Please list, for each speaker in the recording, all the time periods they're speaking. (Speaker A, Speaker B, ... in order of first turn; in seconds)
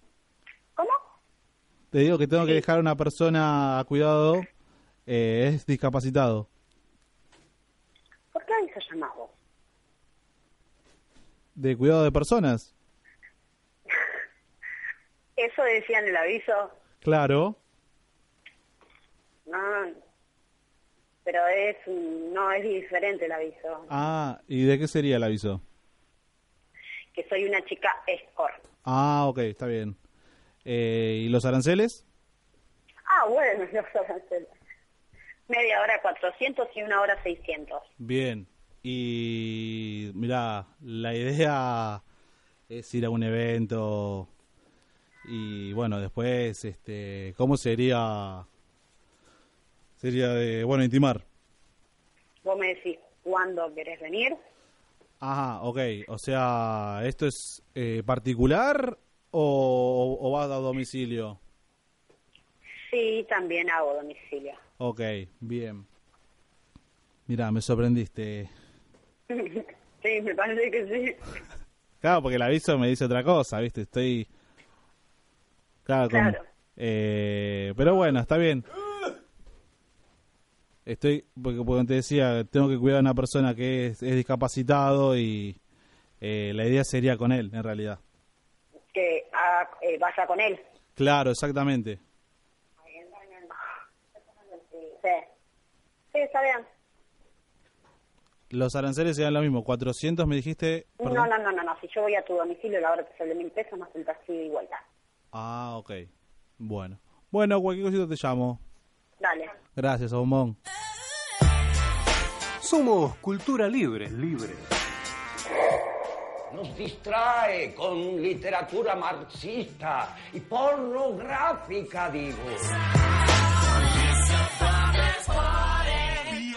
Speaker A: 1.9-4.5, 5.1-6.5, 11.6-12.7, 17.0-17.6, 23.9-25.6, 28.8-30.0, 30.6-32.0, 38.0-42.0, 42.7-44.3, 45.2-48.5, 50.0-51.2, 55.2-61.4, 64.8-65.8, 67.3-68.5, 72.0-74.3, 75.8-78.6, 80.8-85.6, 86.2-88.0, 91.0-92.0, 98.5-101.3, 105.3-106.1, 106.6-108.6, 109.7-110.5
Speaker B: 8.3-9.3, 15.4-16.7, 19.5-19.9, 21.2-23.9, 27.1-28.6, 33.1-34.5, 35.5-37.9, 52.4-54.4, 62.9-64.6, 69.3-71.2, 76.1-76.4, 88.9-90.6, 92.9-93.5, 94.8-95.2, 96.1-96.6, 101.0-104.8, 109.2-109.5
Speaker C: 116.5-122.7